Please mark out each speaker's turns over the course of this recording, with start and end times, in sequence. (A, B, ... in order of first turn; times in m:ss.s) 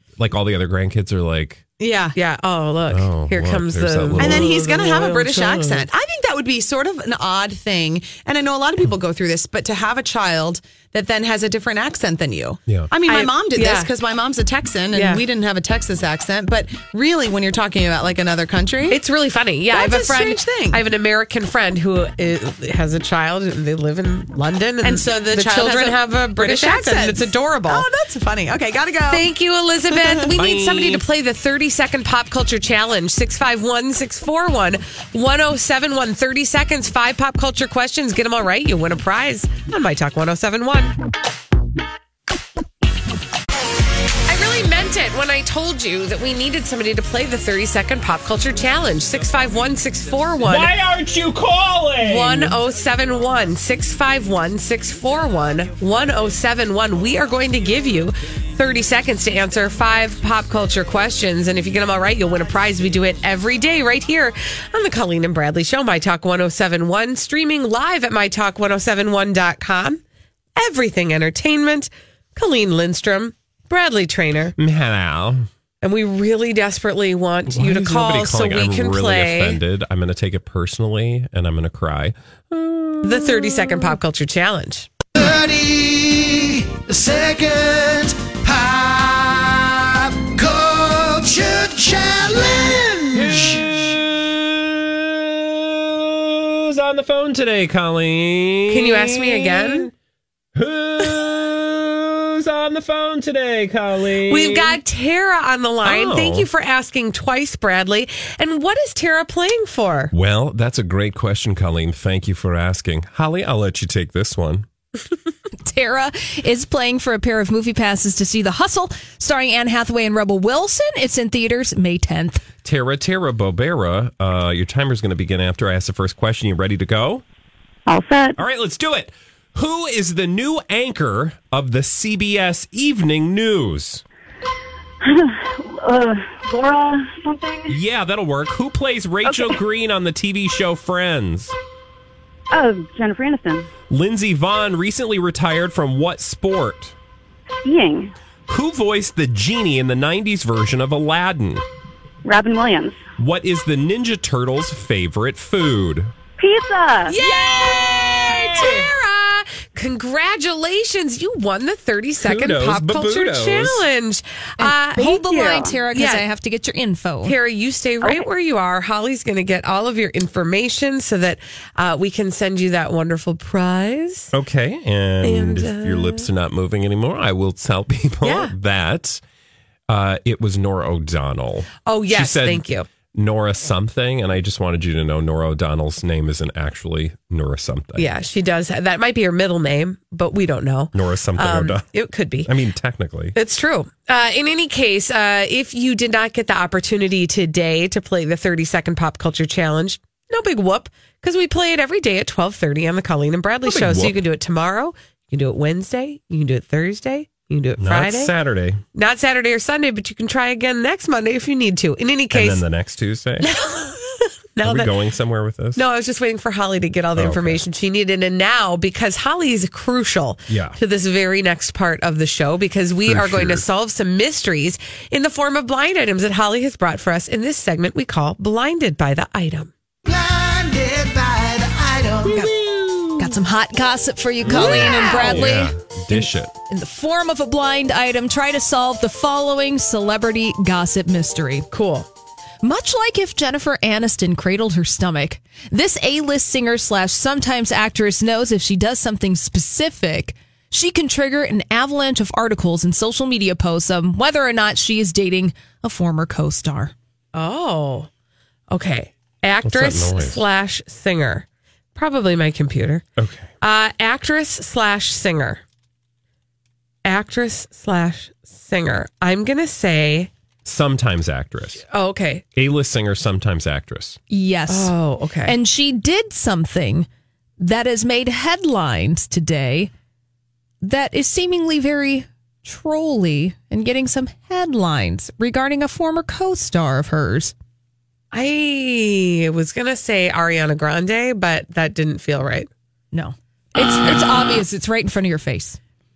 0:00.2-0:01.6 A
0:01.8-0:02.2 B
0:02.2-0:05.8 C
0:02.9-0:04.5 A
0:04.2-0:19.0 B
0:13.1-0:13.9 C
0:14.9-0:15.2 C
0:18.9-0:27.8 C
0:19.7-0:20.8 B
0:24.8-0:29.3 B
0:29.1-0:41.0 C
0:29.9-0:30.3 B
0:30.3-0:31.0 A
0:44.3-0:50.7 C
0:50.4-0:52.6 A
0:52.0-1:10.0 C
1:10.6-1:14.6 C
1:14.6-1:15.5 A
1:15.8-1:19.6 C
1:17.5-1:24.0 A
1:23.0-1:24.9 C
1:25.2-1:33.8 D
1:33.1-1:39.9 A
1:38.7-1:39.9 C
1:40.6-1:44.8 A
1:44.3-1:50.1 C
1:45.8-1:46.5 A
1:50.1-1:54.7 A
1:55.6-2:02.5 E
2:02.6-2:07.2 A
2:07.9-2:08.4 F
2:08.4-2:14.0 A
2:15.0-2:17.7 F
2:17.7-2:21.6 A
2:19.2-2:19.6 F
2:22.5-2:23.7 F
2:23.9-2:27.0 A
2:27.6-2:28.1 F
2:28.5-2:31.6 A
2:32.2-2:33.0 F
2:33.2-2:36.1 A
2:36.4-2:37.1 F
2:37.1-2:46.2 C
2:37.2-2:37.6 E
2:37.6-2:38.9 A
2:42.2-2:43.9 A
2:44.6-2:47.4 E
2:45.4-2:45.7 F
2:47.2-2:54.3 C
2:54.3-2:59.2 A
2:55.2-2:56.3 C
2:58.2-2:58.5 C
2:59.9-3:08.1 A
3:01.9-3:02.9 C
3:08.0-3:12.5 C
3:10.9-3:11.9 A
3:12.4-3:13.4 A
3:13.4-3:28.3 C
3:23.6-3:24.2 A
3:27.8-3:28.8 A
3:28.9-3:32.6 C
3:32.3-3:33.5 A
3:33.4-3:34.9 C
3:34.6-3:35.8 A
3:35.8-3:49.7 C
3:37.2-3:37.6 A
3:40.5-3:40.8 A
3:43.1-3:43.6 A
3:50.1-3:52.4 D
3:52.3-3:53.4 A
3:53.2-4:01.7 E
3:54.4-3:56.5 A
3:54.5-3:55.4 C
4:01.7-4:02.1 C
4:02.6-4:16.9 E
4:17.3-4:18.1 C
4:18.7-4:23.0 C
4:19.6-4:20.4 A
4:23.2-4:23.5 A
4:23.6-4:25.6 C
4:27.0-4:30.3 C
4:30.6-4:31.8 A
4:31.9-4:32.4 C
4:32.6-4:34.2 A
4:34.3-4:34.9 E
4:34.7-4:35.6 C
4:35.4-4:37.1 E
4:37.6-4:39.9 E
4:40.8-4:47.5 E
4:48.3-4:52.7 C
4:53.1-4:55.8 E